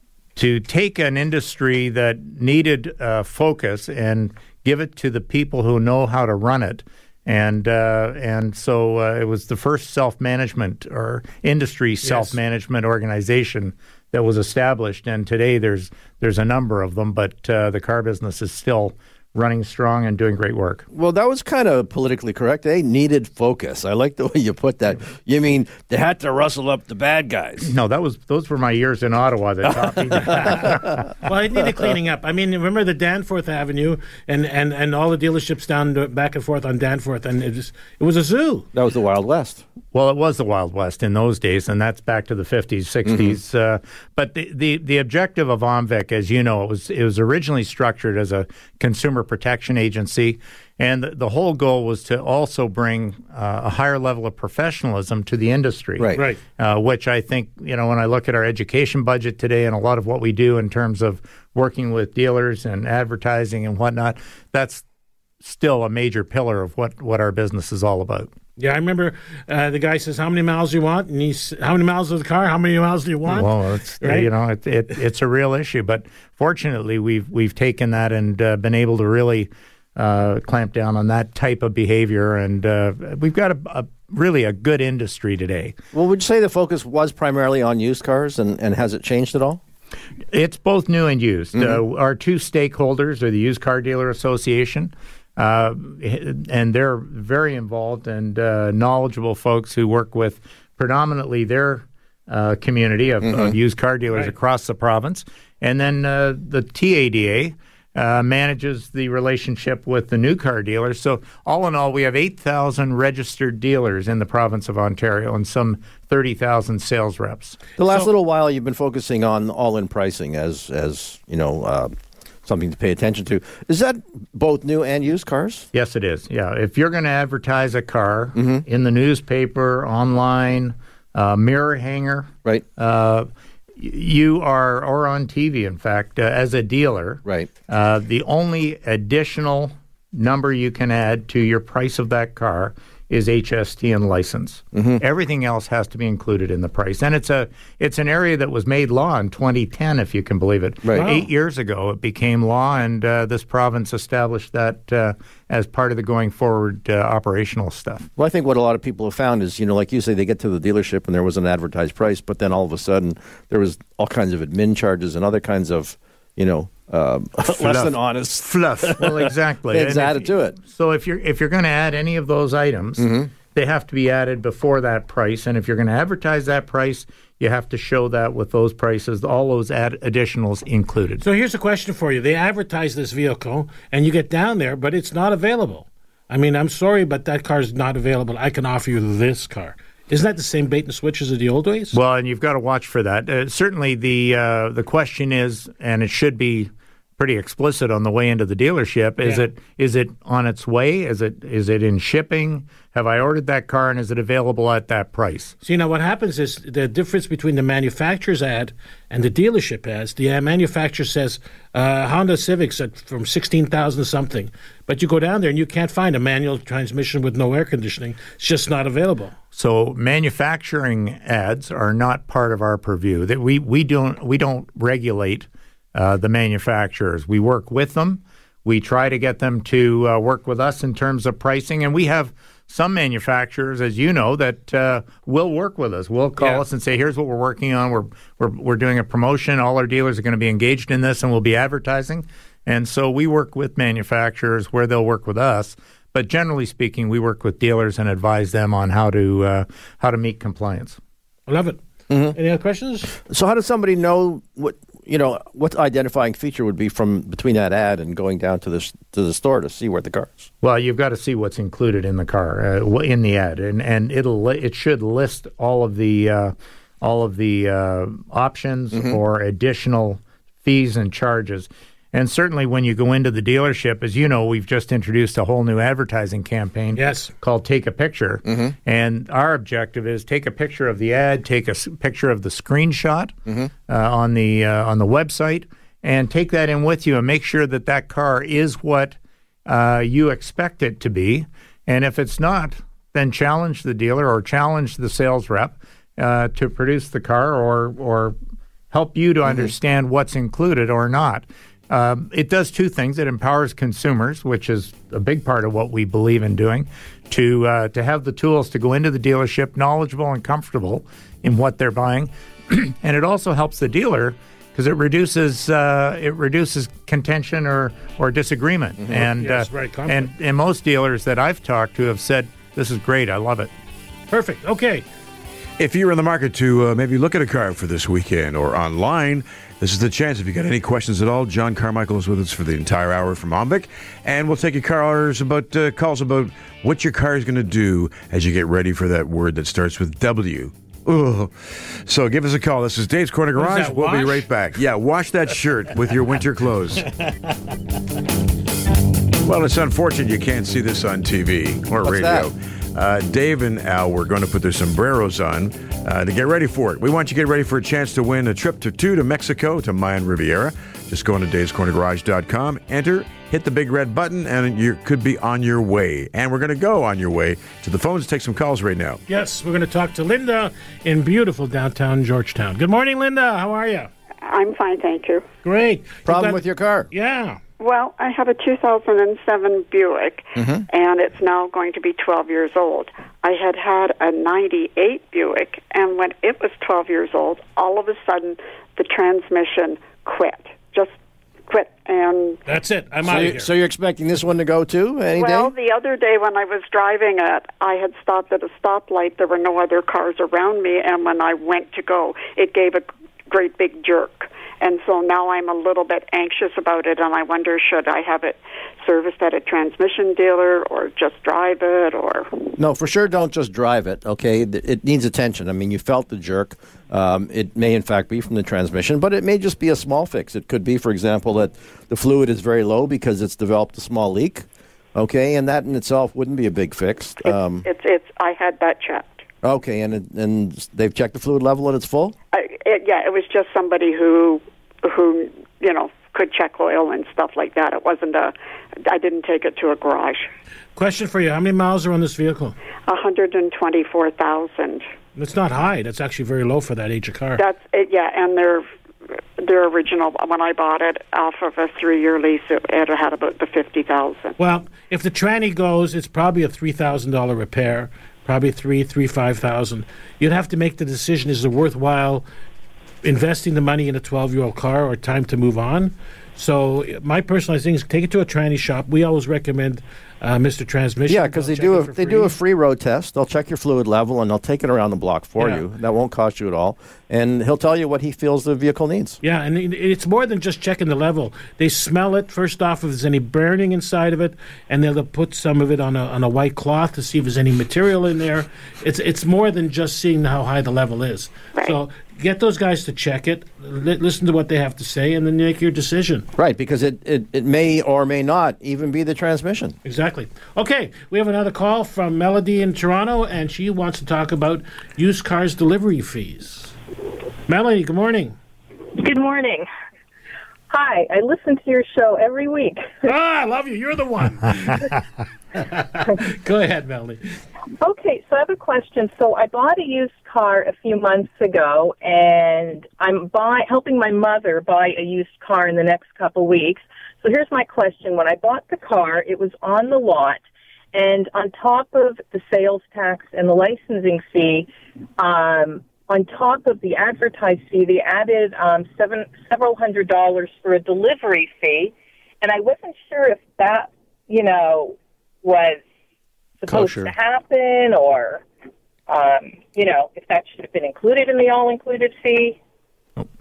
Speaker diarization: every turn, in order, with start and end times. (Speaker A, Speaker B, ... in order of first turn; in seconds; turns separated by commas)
Speaker A: 0.4-20.9, Speaker B: 12.0-12.4, Speaker C: 20.9-27.7, Speaker A: 27.6-31.1, Speaker B: 30.2-38.7, Speaker C: 38.7-39.6, Speaker A: 39.9-64.8, Speaker C: 43.1-43.3, Speaker C: 56.0-56.2, Speaker B: 56.1-56.4, Speaker A: 65.4-68.3, Speaker B: 68.6-74.3, Speaker A: 73.3-85.8, Speaker C: 85.9-89.6, Speaker A: 90.3-117.6, Speaker C: 103.2-103.5, Speaker C: 117.8-121.9, Speaker C: 122.5-125.7, Speaker A: 125.7-158.1, Speaker C: 128.3-128.6, Speaker C: 137.2-137.5, Speaker C: 144.7-145.0, Speaker B: 150.9-151.3, Speaker C: 158.2-169.2, Speaker D: 167.5-169.0, Speaker A: 169.0-181.2, Speaker C: 169.7-170.6, Speaker C: 173.0-173.3, Speaker B: 181.2-192.0, Speaker A: 191.9-205.6, Speaker B: 205.6-219.3, Speaker A: 219.6-251.0, Speaker B: 251.5-251.8, Speaker C: 252.1-252.4, Speaker B: 252.3-253.1, Speaker C: 253.3-260.5, Speaker A: 260.6-283.4, Speaker B: 277.0-277.3, Speaker C: 278.5-278.8, Speaker C: 283.5-283.7, Speaker A: 283.9-298.4, Speaker A: 298.9-323.7, Speaker B: 319.1-320.3, Speaker B: 324.3-325.1, Speaker D: 325.8-347.1, Speaker B: 343.6-344.5, Speaker B: 347.2-347.7, Speaker D: 349.4-369.2, Speaker C: 352.0-352.5, Speaker B: 369.3-374.1, Speaker E: 374.4-375.4, Speaker B: 375.6-376.6, Speaker C: 376.3-377.1, Speaker B: 377.1-377.6, Speaker E: 377.8-391.2, Speaker C: 380.6-380.9, Speaker E: 391.7-392.6, Speaker B: 392.7-393.7, Speaker C: 393.2-395.7, Speaker E: 395.4-412.7, Speaker C: 412.8-427.9, Speaker E: 427.4-429.4, Speaker C: 429.6-432.3, Speaker E: 432.5-438.5, Speaker E: 439.1-440.5, Speaker B: 441.0-442.8, Speaker E: 443.1-445.1, Speaker B: 445.4-447.6, Speaker E: 447.6-448.9, Speaker E: 449.6-454.6, Speaker B: 454.6-462.4, Speaker B: 463.2-472.5, Speaker C: 471.3-479.4, Speaker B: 479.4-496.5, Speaker C: 496.6-500.0, Speaker B: 500.0-506.9, Speaker B: 507.7-508.6, Speaker F: 509.1-509.9, Speaker F: 510.9-513.1, Speaker B: 513.2-515.2, Speaker B: 515.8-517.6, Speaker F: 518.0-530.6, Speaker F: 531.1-546.0, Speaker F: 546.8-548.6, Speaker F: 549.3-552.8